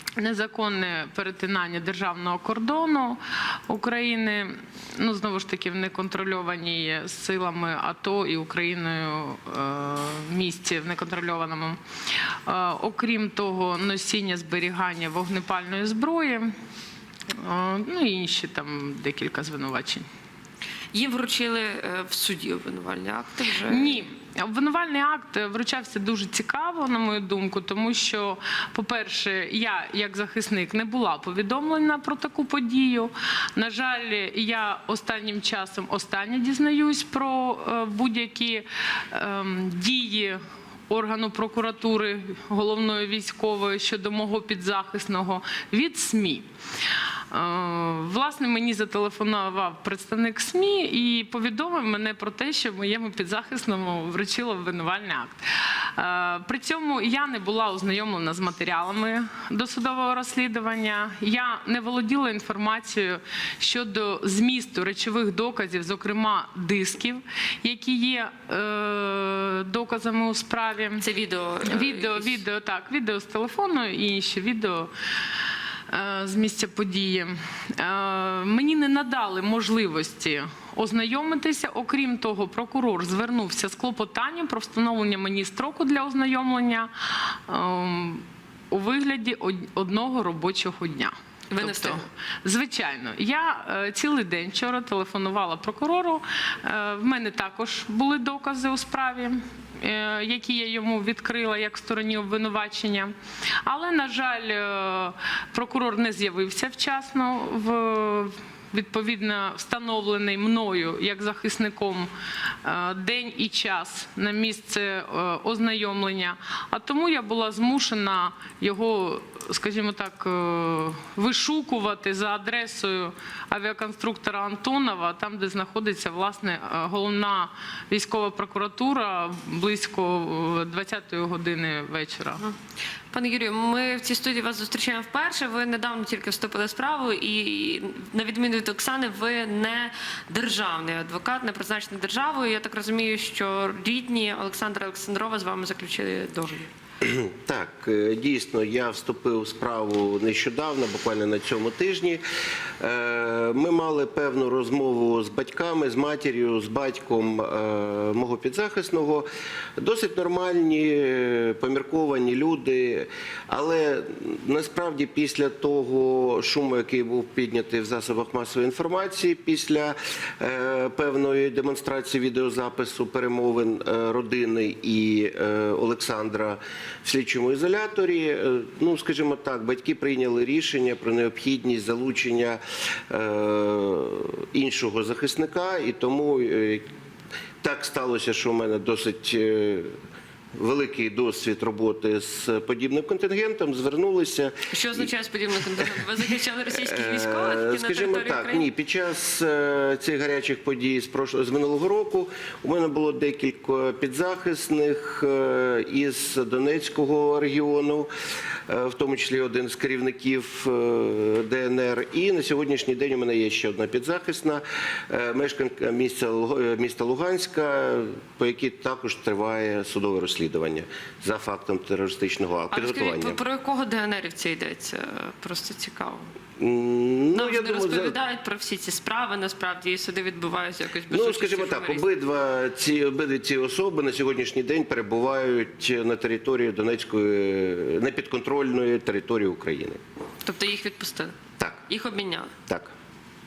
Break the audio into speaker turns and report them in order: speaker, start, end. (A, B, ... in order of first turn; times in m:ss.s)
0:00.2-0:11.8 A
0:12.5-0:16.6 A
0:17.4-0:20.1 A
0:20.9-0:24.1 B
0:23.7-0:46.5 A
0:47.3-1:11.0 A
1:11.0-1:12.4 B
1:11.6-1:14.9 A
1:15.9-1:43.1 A
1:31.5-1:32.0 B
1:43.6-1:52.1 A
1:52.6-2:12.4 A
2:13.1-2:26.7 B
2:27.0-2:32.2 C
2:32.8-2:39.3 C
2:39.8-3:06.9 C
3:07.6-3:09.9 C
3:10.6-3:15.1 C
3:14.7-3:18.6 B
3:16.7-3:28.1 C
3:28.7-3:43.4 C
3:42.7-3:46.3 B
3:46.6-3:48.2 C
3:47.3-3:52.1 B
3:51.1-4:00.0 C
4:00.4-4:02.6 B
4:02.7-4:02.9 C